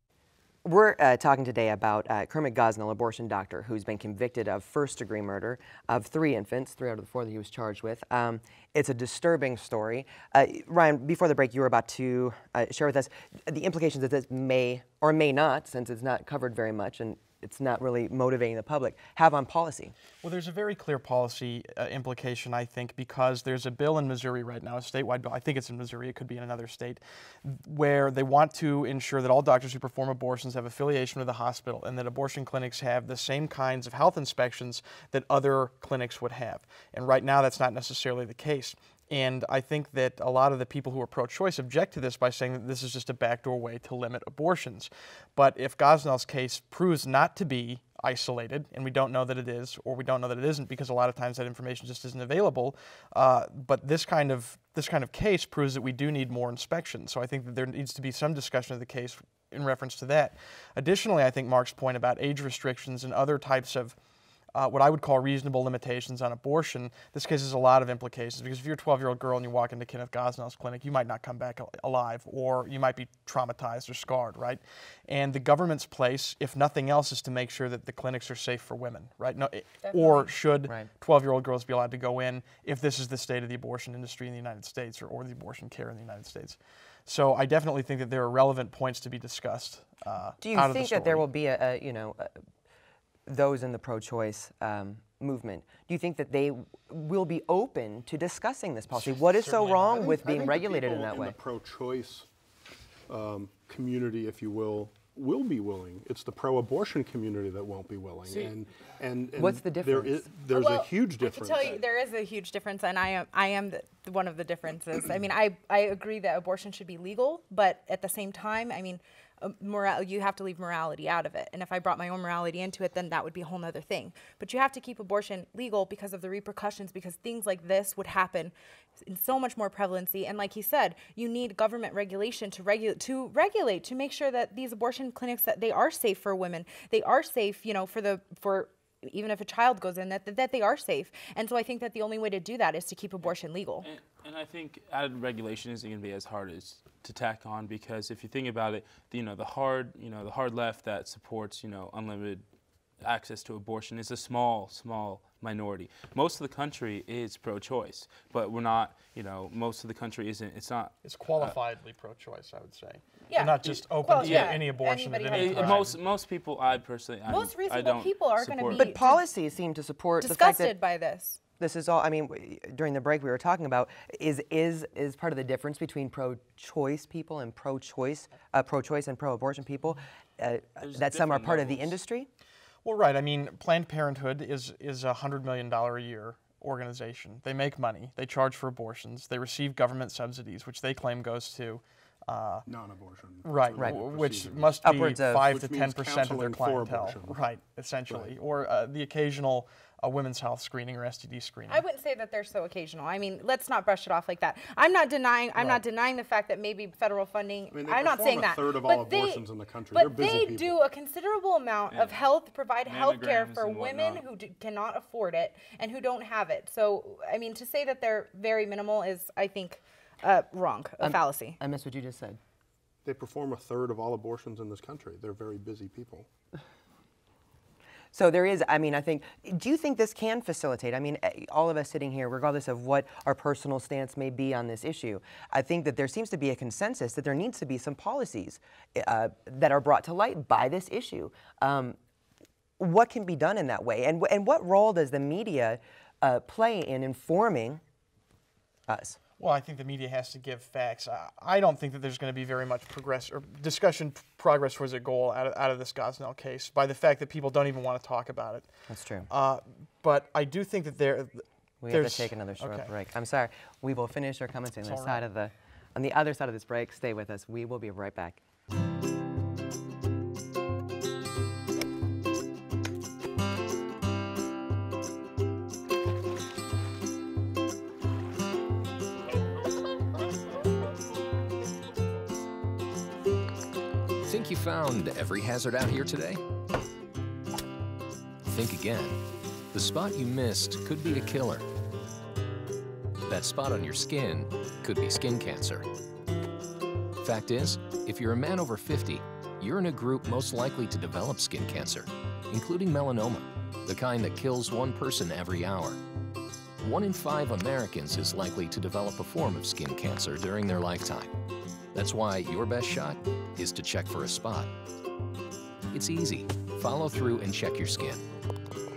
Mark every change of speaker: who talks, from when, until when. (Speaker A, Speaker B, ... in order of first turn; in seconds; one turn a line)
Speaker A: 0.7-19.9
Speaker B: 20.2-64.0
Speaker B: 64.5-91.2
Speaker C: 79.8-80.3
Speaker A: 90.4-92.4
Speaker A: 93.3-101.3
Speaker D: 99.0-102.3
Speaker D: 103.1-111.8
Speaker E: 108.3-108.5
Speaker A: 109.4-110.3
Speaker C: 110.5-143.9
Speaker E: 143.8-152.4
Speaker E: 153.0-161.5
Speaker B: 161.0-166.0
Speaker C: 163.3-165.9
Speaker E: 164.2-164.6
Speaker E: 165.3-168.9
Speaker C: 167.3-169.2
Speaker A: 168.8-170.8
Speaker C: 170.2-171.4
Speaker A: 171.6-182.3
Speaker E: 180.8-182.0
Speaker B: 182.8-192.7
Speaker D: 192.7-197.4
Speaker B: 193.4-201.8
Speaker A: 194.8-195.4
Speaker C: 201.7-221.6
Speaker D: 207.7-210.8
Speaker E: 211.9-212.3
Speaker E: 212.8-214.2
Speaker A: 221.0-222.4
Speaker D: 223.1-226.3
Speaker A: 228.1-242.0
Speaker A: 242.8-247.8
Speaker A: 248.9-249.2
Speaker B: 249.4-258.7
Speaker A: 258.9-259.3
Speaker B: 259.3-262.9
Speaker A: 261.8-268.4
Speaker B: 264.8-265.2
Speaker F: 284.2-286.4
Speaker F: 288.4-289.2
Speaker F: 289.7-291.6
Speaker F: 293.3-295.9
Speaker F: 297.2-306.0
Speaker F: 306.8-311.3
Speaker F: 311.9-314.7
Speaker F: 315.9-318.2